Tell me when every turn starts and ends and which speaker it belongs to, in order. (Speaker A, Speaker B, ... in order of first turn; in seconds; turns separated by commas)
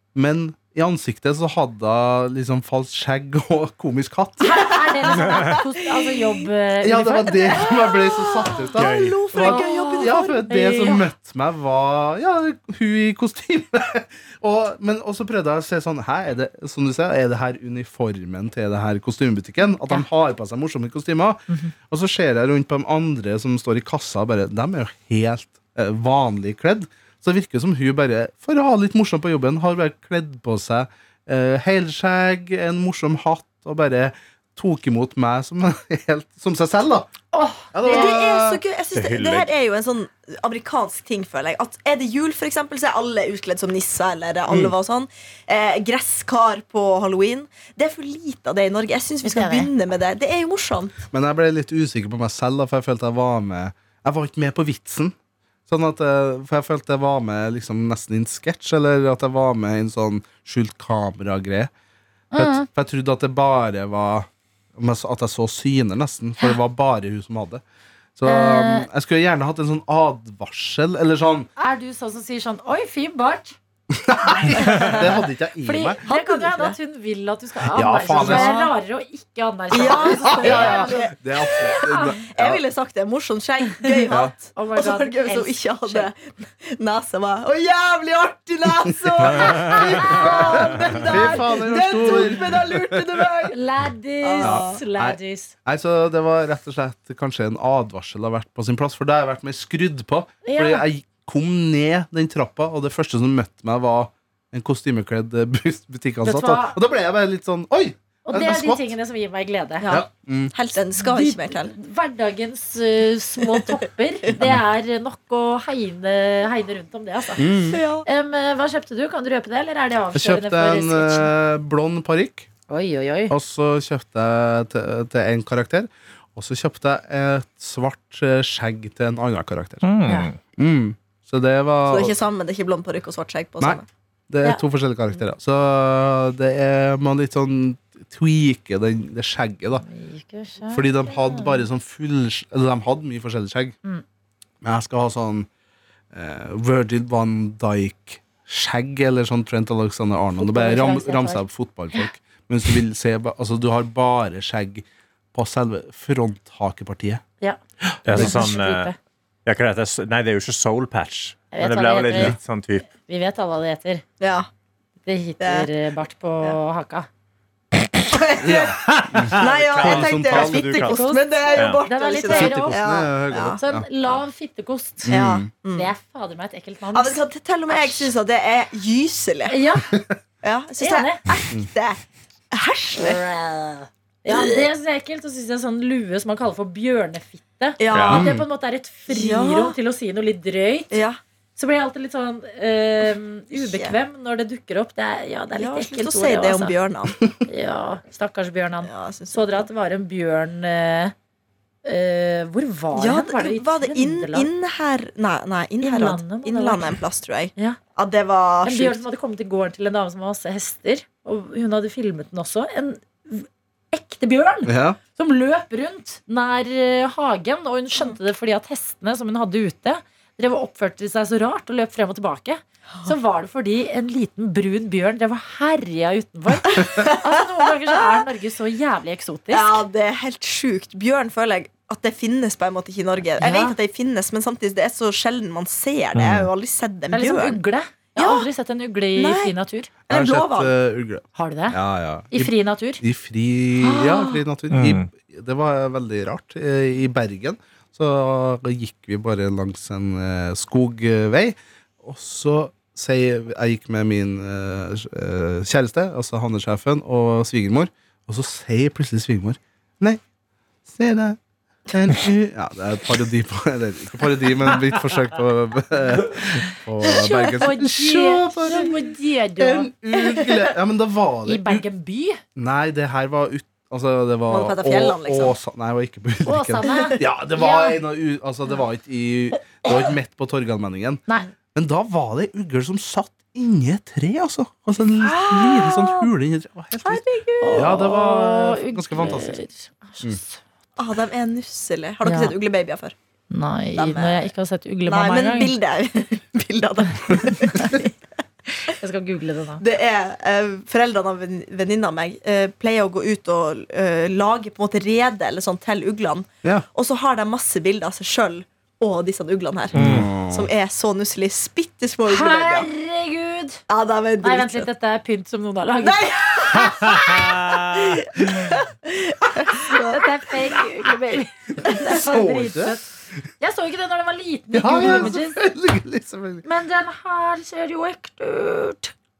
Speaker A: 0.1-4.8, Speaker B: 4.4-7.7, Speaker C: 5.1-6.2, Speaker A: 6.8-37.1, Speaker C: 7.5-10.4, Speaker D: 8.8-9.2, Speaker B: 9.4-11.1, Speaker B: 37.3-38.1, Speaker A: 37.7-38.6, Speaker C: 37.8-51.0, Speaker D: 38.9-39.5, Speaker A: 44.5-44.8, Speaker B: 49.2-49.7, Speaker A: 51.1-55.1, Speaker A: 55.7-61.7, Speaker B: 62.3-62.7, Speaker A: 62.4-67.6, Speaker A: 68.2-71.5, Speaker B: 68.2-68.9, Speaker B: 71.6-73.6, Speaker A: 73.9-76.0, Speaker B: 74.2-75.0, Speaker C: 74.5-75.0, Speaker B: 75.6-82.2, Speaker C: 76.0-76.8, Speaker A: 77.7-78.6, Speaker C: 78.1-78.7, Speaker C: 79.7-81.7, Speaker A: 79.9-82.6, Speaker C: 82.3-93.6, Speaker B: 84.5-86.1, Speaker B: 90.0-91.4, Speaker A: 90.0-93.2, Speaker B: 93.5-95.5, Speaker C: 94.2-94.8, Speaker A: 94.4-108.9, Speaker B: 100.4-100.8, Speaker B: 106.2-106.8, Speaker B: 108.3-110.0, Speaker C: 109.8-111.7, Speaker A: 109.9-110.5, Speaker B: 111.0-121.3, Speaker A: 117.4-117.8, Speaker C: 117.7-118.1, Speaker A: 120.1-122.5, Speaker B: 122.7-123.3, Speaker A: 123.3-129.8, Speaker D: 129.8-130.4, Speaker A: 130.6-132.2, Speaker C: 131.9-133.9, Speaker A: 133.6-139.8, Speaker B: 139.9-141.6, Speaker A: 140.7-143.8, Speaker A: 144.6-145.5, Speaker A: 146.1-157.2, Speaker B: 150.4-152.1, Speaker A: 157.9-158.4, Speaker D: 158.1-158.9, Speaker B: 158.1-159.0, Speaker D: 159.4-162.9, Speaker B: 161.5-162.4, Speaker B: 163.0-164.0, Speaker C: 164.2-164.5, Speaker B: 165.1-167.1, Speaker C: 165.4-165.7, Speaker C: 168.0-168.7, Speaker A: 168.4-170.8, Speaker D: 168.8-171.8, Speaker C: 169.4-173.6, Speaker B: 170.8-172.8, Speaker A: 172.2-173.9, Speaker B: 173.6-175.1, Speaker A: 175.0-175.5, Speaker C: 175.1-175.9, Speaker B: 175.7-177.2, Speaker C: 176.9-179.6, Speaker B: 177.7-178.1, Speaker B: 179.5-179.9, Speaker C: 180.4-182.0, Speaker B: 180.8-181.2, Speaker C: 182.5-183.2, Speaker B: 183.0-190.9, Speaker C: 184.3-184.7, Speaker C: 187.8-188.3, Speaker D: 187.9-188.2, Speaker A: 188.1-188.4, Speaker C: 189.1-189.8, Speaker C: 190.9-191.2, Speaker B: 191.6-196.8, Speaker C: 193.6-193.9, Speaker C: 195.6-197.2, Speaker B: 197.5-201.1, Speaker C: 198.9-199.7, Speaker B: 201.8-204.5, Speaker C: 202.9-209.0, Speaker B: 205.8-206.9, Speaker B: 208.6-229.8, Speaker A: 214.6-215.0, Speaker C: 226.7-228.2, Speaker C: 229.5-237.6, Speaker B: 233.4-233.8, Speaker D: 236.1-236.5, Speaker B: 237.1-239.9, Speaker C: 238.2-238.5, Speaker C: 239.2-239.5, Speaker C: 240.1-240.7, Speaker A: 240.1-260.2, Speaker B: 241.3-241.8, Speaker B: 242.3-243.0, Speaker C: 243.8-244.4, Speaker D: 244.7-245.1, Speaker A: 260.9-269.0, Speaker B: 267.0-269.9, Speaker A: 269.6-271.9, Speaker C: 270.1-270.7, Speaker B: 271.4-272.4, Speaker A: 272.6-281.2, Speaker C: 274.5-275.6, Speaker B: 276.4-278.0, Speaker A: 281.7-289.6, Speaker C: 285.2-286.3, Speaker C: 287.0-288.0, Speaker B: 287.6-290.6, Speaker C: 291.0-293.1, Speaker B: 292.2-292.5, Speaker B: 293.5-295.7, Speaker C: 293.9-294.4, Speaker C: 295.1-298.1, Speaker B: 298.9-299.8, Speaker C: 299.8-312.9, Speaker A: 309.9-310.7, Speaker D: 309.9-310.3, Speaker B: 312.3-313.8, Speaker C: 313.9-314.9, Speaker B: 314.4-316.2, Speaker C: 316.0-320.3, Speaker D: 316.9-317.8, Speaker B: 319.9-323.1, Speaker A: 322.1-323.0, Speaker B: 323.6-325.6, Speaker A: 324.7-326.6, Speaker B: 326.6-329.1